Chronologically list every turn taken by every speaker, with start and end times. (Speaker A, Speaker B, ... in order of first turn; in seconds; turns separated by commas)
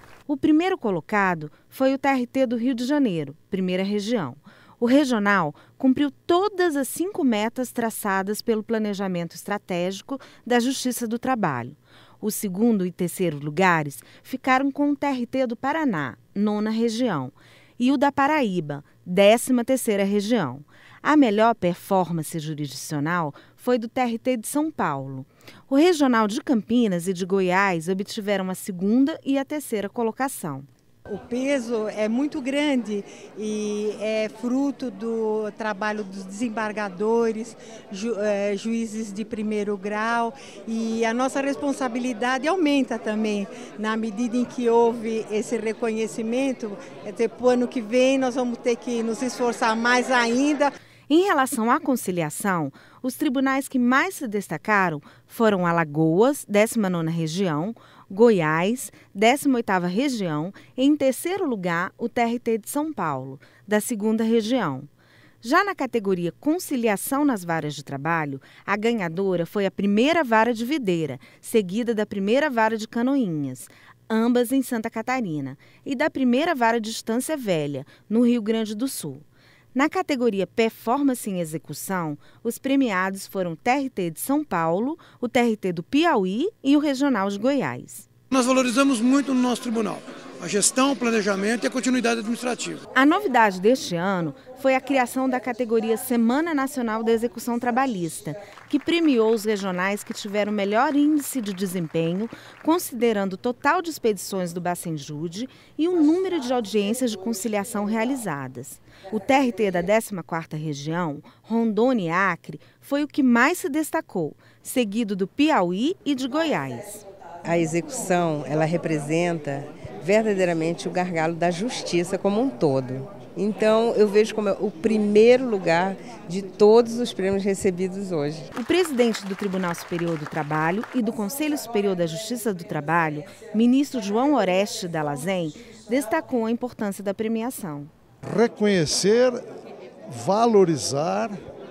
Speaker A: 0.3-30.7, Speaker B: 31.1-50.7, Speaker A: 51.1-64.9, Speaker A: 65.4-88.1, Speaker C: 88.3-92.8, Speaker A: 92.9-117.0, Speaker D: 117.4-128.5, Speaker A: 128.5-137.9, Speaker E: 138.2-139.4, Speaker E: 140.1-141.4